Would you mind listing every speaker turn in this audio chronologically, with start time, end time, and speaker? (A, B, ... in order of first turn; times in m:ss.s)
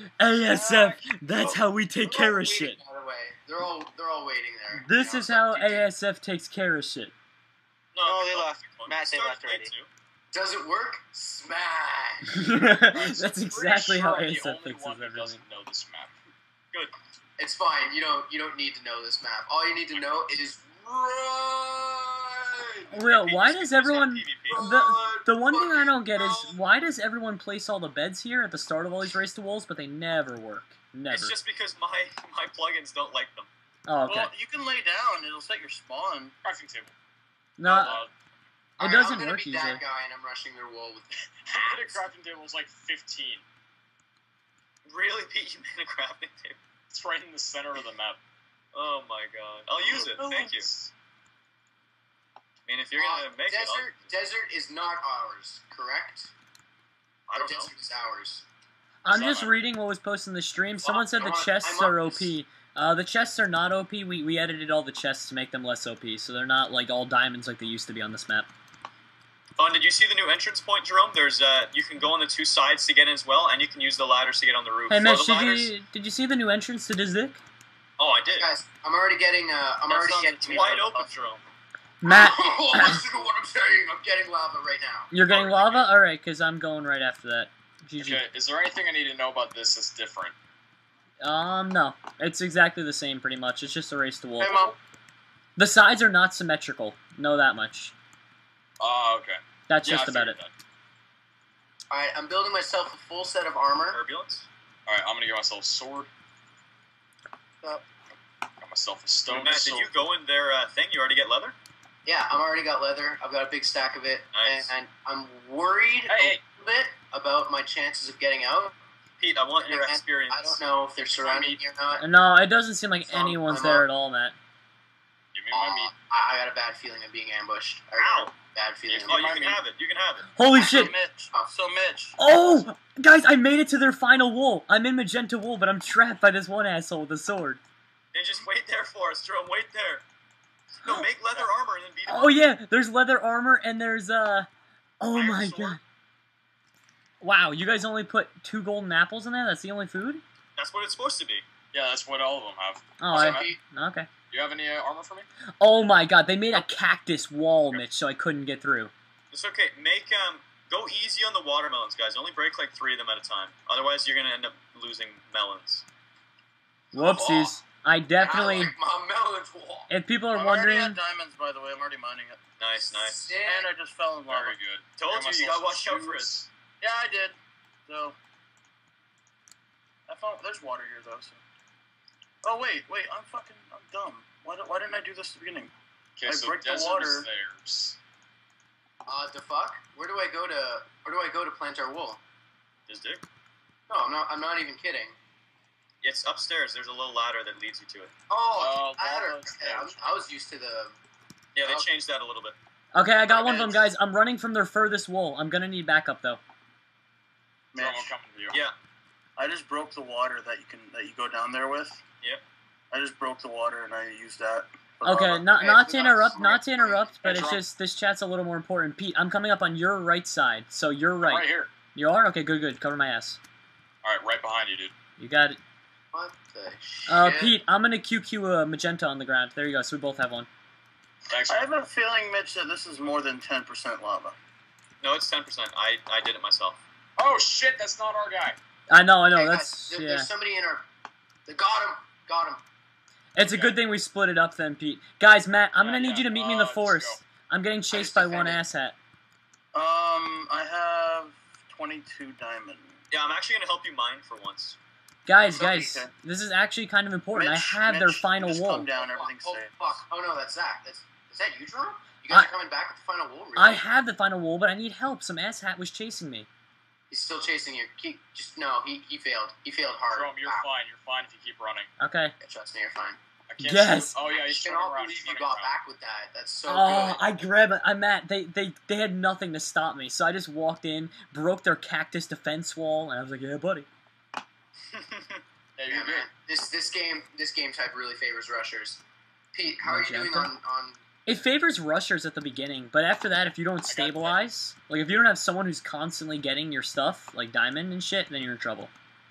0:00.2-0:02.8 A
0:00.5-0:01.2 B
0:02.0-0:05.8 C
0:04.7-0:07.1 A
0:07.9-0:09.9 D
0:08.0-0:09.7 C
0:10.3-0:12.4 C
0:12.3-0:15.4 A
0:12.9-0:16.1 B
0:17.4-0:22.9 C
0:22.9-0:31.3 A
0:23.0-0:24.7 D
0:24.5-0:26.6 C
0:31.1-0:33.5 D
0:33.9-0:34.3 A
0:34.0-0:36.3 E
0:36.4-0:36.9 B
0:37.6-0:38.0 A
0:37.6-0:38.1 B
0:38.8-0:39.8 A
0:38.8-0:42.0 C
0:41.4-0:43.4 B
0:44.9-0:46.6 D
0:46.9-0:48.2 B
0:48.7-0:50.7 D
0:49.8-0:50.9 B
0:52.7-0:54.1 D
0:52.9-0:56.3 C
0:57.3-0:57.7 D
0:57.3-0:58.4 C
0:59.0-1:08.5 A
0:59.1-0:59.6 B
1:00.8-1:02.3 C
1:09.6-1:15.7 D
1:14.9-1:17.4 A
1:18.0-1:18.5 D
1:18.3-1:21.0 C
1:19.9-1:20.9 E
1:20.4-1:21.4 D
1:22.0-1:23.0 A
1:22.0-1:25.1 C
1:25.1-1:28.2 A
1:25.3-1:25.9 D
1:28.0-1:30.3 B
1:31.2-1:34.6 A
1:34.4-1:34.7 E
1:35.6-1:37.9 A
1:38.8-1:40.5 B
1:39.7-1:40.4 A
1:41.9-1:44.0 C
1:43.9-1:44.5 D
1:44.9-1:46.1 B
1:48.6-1:49.9 B
1:49.3-1:51.5 D
1:52.0-1:58.7 C
1:54.3-1:54.7 D
1:56.1-1:56.4 B
1:59.2-2:00.6 D
1:59.6-2:02.0 C
2:01.1-2:01.6 B
2:02.0-2:04.4 A
2:03.1-2:03.8 C
2:05.3-2:05.9 B
2:05.5-2:09.4 C
2:08.0-2:08.3 D
2:08.9-2:09.6 B
2:09.1-2:10.4 D
2:10.3-2:10.9 A
2:10.5-2:11.5 C
2:10.6-2:12.2 E
2:12.2-2:17.6 A
2:18.1-2:20.0 D
2:20.8-2:22.4 D
2:22.1-2:24.5 A
2:25.0-2:25.8 A
2:25.1-2:25.8 D
2:27.2-2:30.2 A
2:30.6-2:31.4 D
2:31.7-2:33.4 B
2:33.0-2:34.1 A
2:33.1-2:33.6 C
2:34.3-2:35.3 B
2:35.6-2:38.9 A
2:39.3-2:45.8 D
2:46.9-2:47.5 C
2:46.9-2:48.7 A
2:48.2-2:49.9 C
2:49.9-2:51.0 A
2:50.3-2:52.4 E
2:52.6-2:53.3 D
2:52.7-2:53.7 C
2:53.4-2:54.6 E
2:54.3-2:56.5 B
2:55.0-2:56.4 D
2:56.8-2:58.2 E
3:00.1-3:01.4 E
3:02.4-3:05.7 E
3:06.2-3:08.0 B
3:06.2-3:07.3 E
3:09.0-3:12.2 C
3:12.9-3:13.2 D
3:13.9-3:15.1 C
3:16.0-3:18.1 D
3:18.3-3:20.9 C
3:18.6-3:20.1 B
3:21.5-3:22.6 D
3:22.9-3:26.4 A
3:23.3-3:23.8 C
3:27.7-3:28.1 E
3:27.7-3:28.6 B
3:29.4-3:32.0 E
3:32.9-3:35.5 E
3:35.0-3:43.4 A
3:35.5-3:37.5 C
3:37.2-3:37.6 B
3:41.2-3:41.7 B
3:44.0-3:44.9 B
3:45.2-3:45.6 A
3:46.1-3:47.5 C
3:47.1-3:50.5 A
3:51.3-3:51.7 B
3:51.5-3:54.4 E
3:55.0-3:56.8 D
3:57.2-3:58.6 B
3:58.9-4:00.3 A
3:59.3-4:00.8 C
4:01.5-4:02.6 C
4:03.3-4:09.0 A
4:03.4-4:03.7 B
4:05.8-4:07.2 B
4:07.9-4:08.6 C
4:09.7-4:13.0 E
4:13.1-4:14.8 D
4:15.2-4:18.9 A
4:15.4-4:16.1 E
4:17.3-4:20.0 E
4:19.0-4:23.8 C
4:23.6-4:26.5 A
4:27.1-4:30.7 C
4:30.1-4:31.9 B
4:32.0-4:32.3 A
4:32.4-4:33.2 C
4:33.5-4:35.7 B
4:33.6-4:34.1 A
4:34.4-4:37.2 C
4:36.7-4:43.9 A
4:44.9-4:45.4 D
4:45.8-4:46.2 B
4:45.9-4:49.0 C
4:49.5-4:51.0 C
4:49.8-4:50.5 A
4:51.2-4:58.9 A
4:53.9-4:54.5 B